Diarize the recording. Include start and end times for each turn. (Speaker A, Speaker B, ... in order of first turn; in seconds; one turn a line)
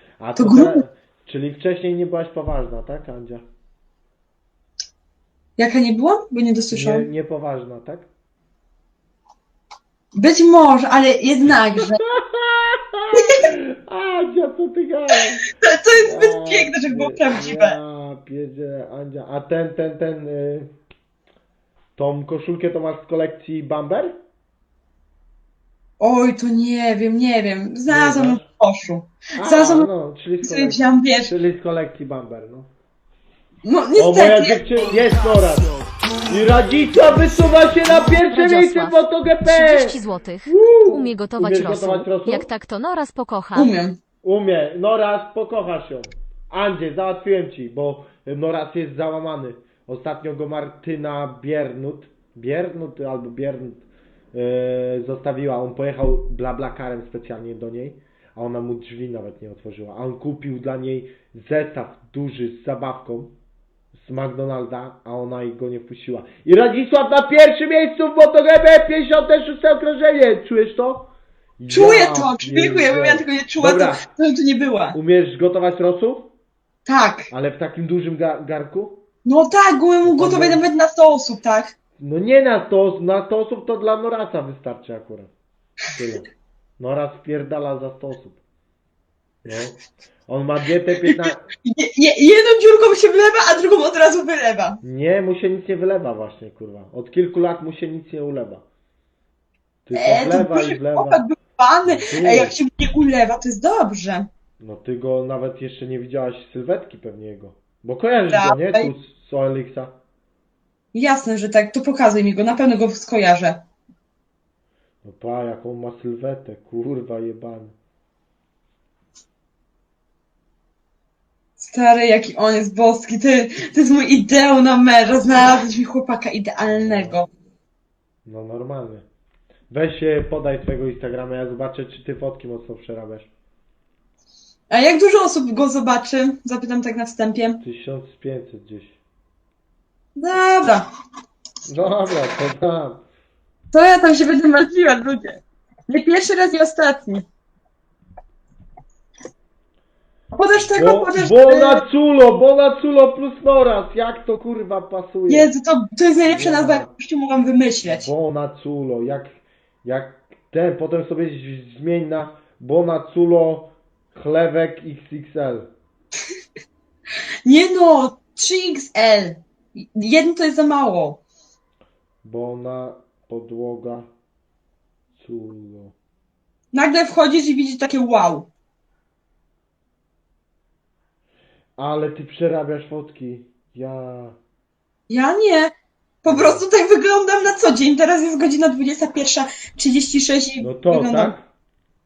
Speaker A: 0.2-3.4
Speaker B: 0.4-0.8
Speaker B: 5.6-7.1
Speaker A: 6.7-8.1
Speaker B: 10.1-12.0
Speaker A: 11.8-15.5
Speaker B: 13.1-13.5
Speaker B: 15.5-17.8
Speaker A: 16.0-20.7
Speaker A: 22.0-24.2
Speaker B: 26.0-29.9
Speaker A: 27.9-28.4
Speaker A: 29.4-32.7
Speaker B: 30.4-31.3
Speaker B: 33.6-34.6
Speaker A: 34.0-35.7
Speaker A: 36.2-42.5
Speaker C: 38.3-43.7
Speaker B: 43.5-44.0
Speaker A: 44.2-63.3
Speaker A: 63.9-74.0
Speaker B: 71.7-75.0
Speaker A: 74.9-76.3
Speaker B: 76.8-77.3
Speaker A: 77.3-79.0
Speaker B: 79.2-81.7
Speaker A: 80.0-80.6
Speaker A: 82.0-85.3
Speaker A: 85.9-86.3
Speaker A: 86.8-88.4
Speaker A: 89.4-91.4
Speaker B: 91.0-94.8
Speaker A: 94.8-98.6
Speaker A: 99.8-101.2
Speaker B: 99.9-104.3
Speaker A: 101.8-102.5
Speaker A: 104.6-109.9
Speaker B: 108.3-108.9
Speaker B: 110.9-113.6
Speaker A: 115.0-117.7
Speaker B: 121.6-127.3
Speaker A: 126.7-127.2
Speaker A: 128.2-129.0
Speaker A: 129.7-133.3
Speaker B: 134.7-137.6
Speaker A: 137.6-139.0
Speaker B: 140.2-140.9
Speaker A: 141.7-143.0
Speaker B: 143.7-147.2
Speaker B: 150.3-151.8
Speaker A: 150.7-155.5
Speaker B: 155.3-158.1
Speaker A: 156.2-156.9
Speaker A: 157.8-165.7
Speaker B: 167.4-171.2
Speaker A: 172.2-174.1
Speaker A: 175.2-175.9
Speaker B: 176.7-178.5
Speaker A: 181.8-184.3
Speaker B: 185.1-191.3
Speaker A: 186.3-186.6
Speaker A: 190.6-191.4